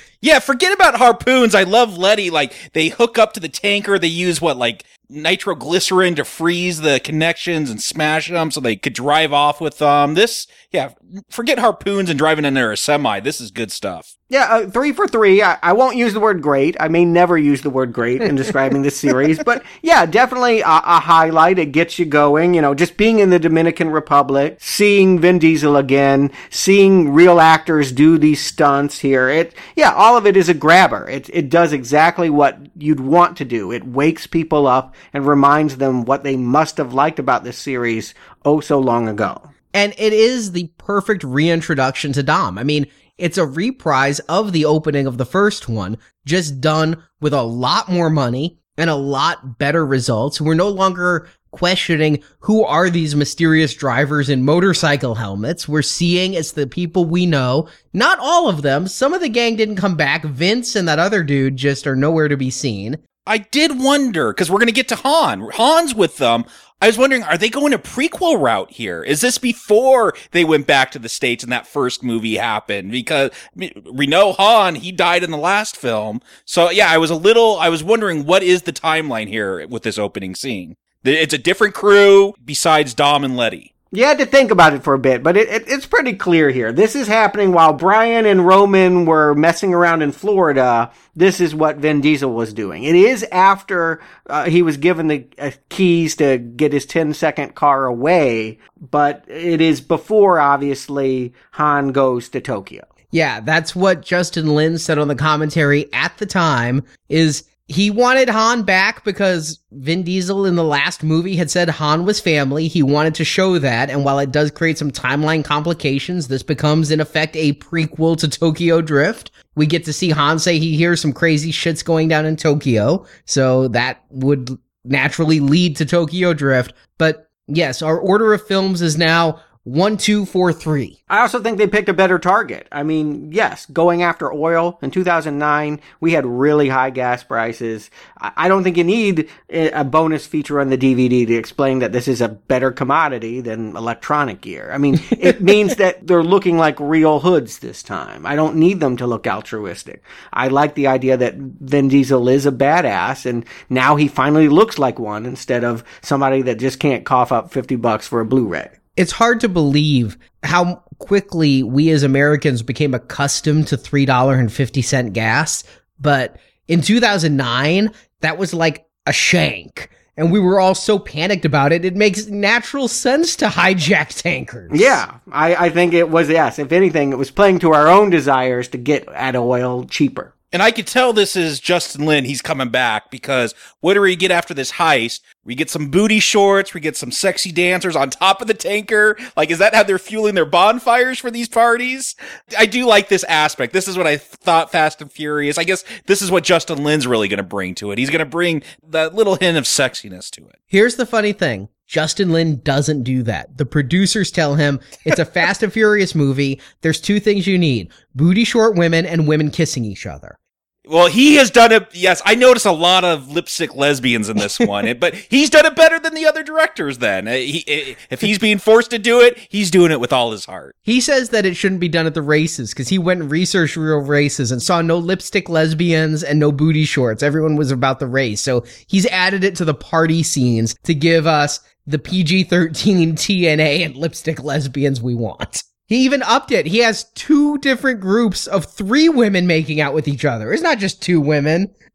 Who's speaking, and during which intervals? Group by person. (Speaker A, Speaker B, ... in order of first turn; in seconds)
Speaker A: 0.2-14.1, 63.3-83.7, 180.5-200.5, 210.9-220.7
Speaker B: 14.3-39.5, 83.9-102.8, 131.1-158.7, 174.7-180.3
Speaker C: 39.7-63.0, 103.1-130.9, 159.0-175.0, 200.7-210.4, 220.8-241.7